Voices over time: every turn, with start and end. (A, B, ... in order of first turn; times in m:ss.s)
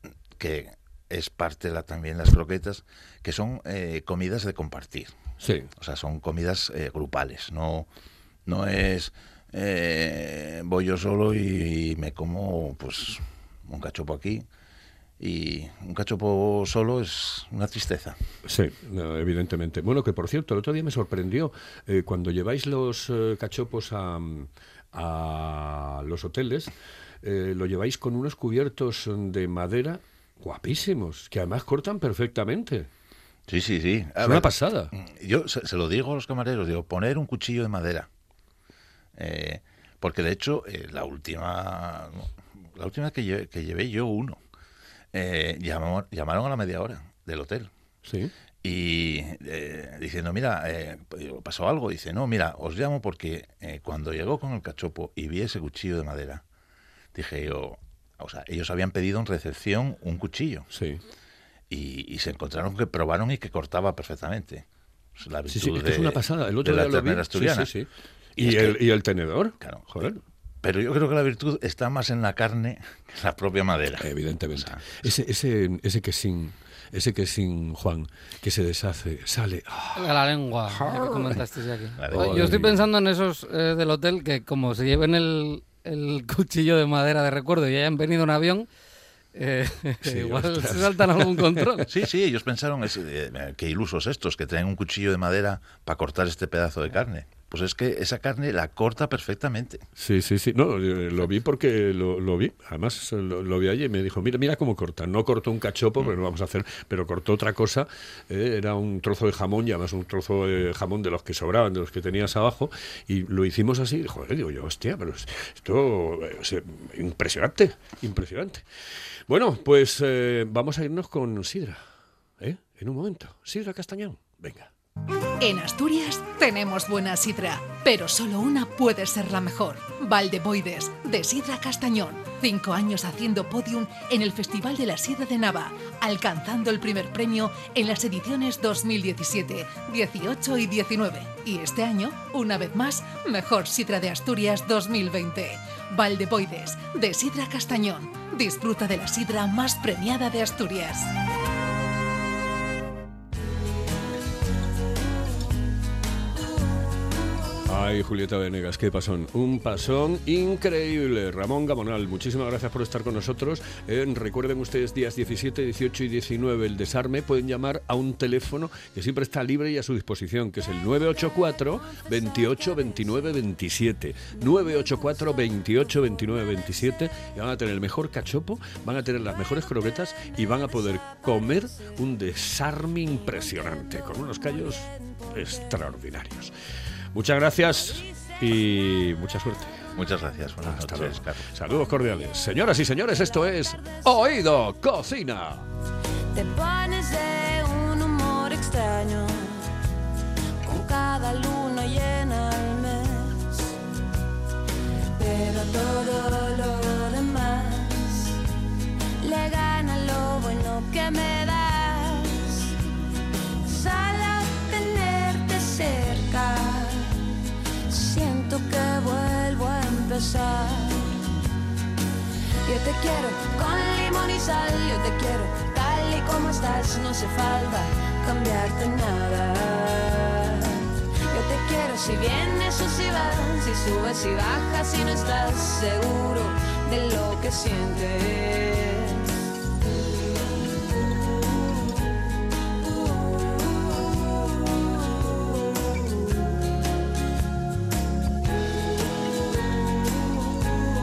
0:00.4-0:05.1 A
0:05.4-0:05.7 B
0:05.8-0:07.9 A
0:08.5-0:14.5 A
0:15.2-0:18.2 A
0:18.4-0:32.9 B
0:33.5-0:38.1 A
0:34.2-0:34.9 B
0:39.2-0:44.4 A
0:45.1-0:47.7 A
0:48.1-0:48.3 B
0:48.6-0:56.4 A
0:57.1-1:00.7 A
1:00.7-1:01.0 B
1:01.7-1:04.6 A
1:05.2-1:07.7 A
1:05.5-1:10.2 B
1:08.4-1:08.8 A
1:09.6-1:15.1 A
1:14.0-1:20.1 B
1:20.0-1:28.7 C
1:20.7-1:21.2 B
1:22.0-1:22.6 A
1:22.1-1:22.8 B
1:29.4-1:31.9 C
1:30.0-1:31.8 B
1:31.9-1:39.8 A
1:40.0-1:58.6 B
1:59.3-2:01.8 B
2:02.4-2:04.7 B
2:05.4-2:31.1 D
2:37.7-3:06.5 B
3:07.1-3:09.9 B
3:10.0-3:11.5 A
3:10.6-3:15.7 B
3:16.3-3:19.7 E
3:20.6-3:23.8 E
3:25.1-3:28.4 E
3:29.2-3:32.8 E
3:33.6-3:37.2 E
3:37.9-3:41.3 E
3:42.7-3:59.4 E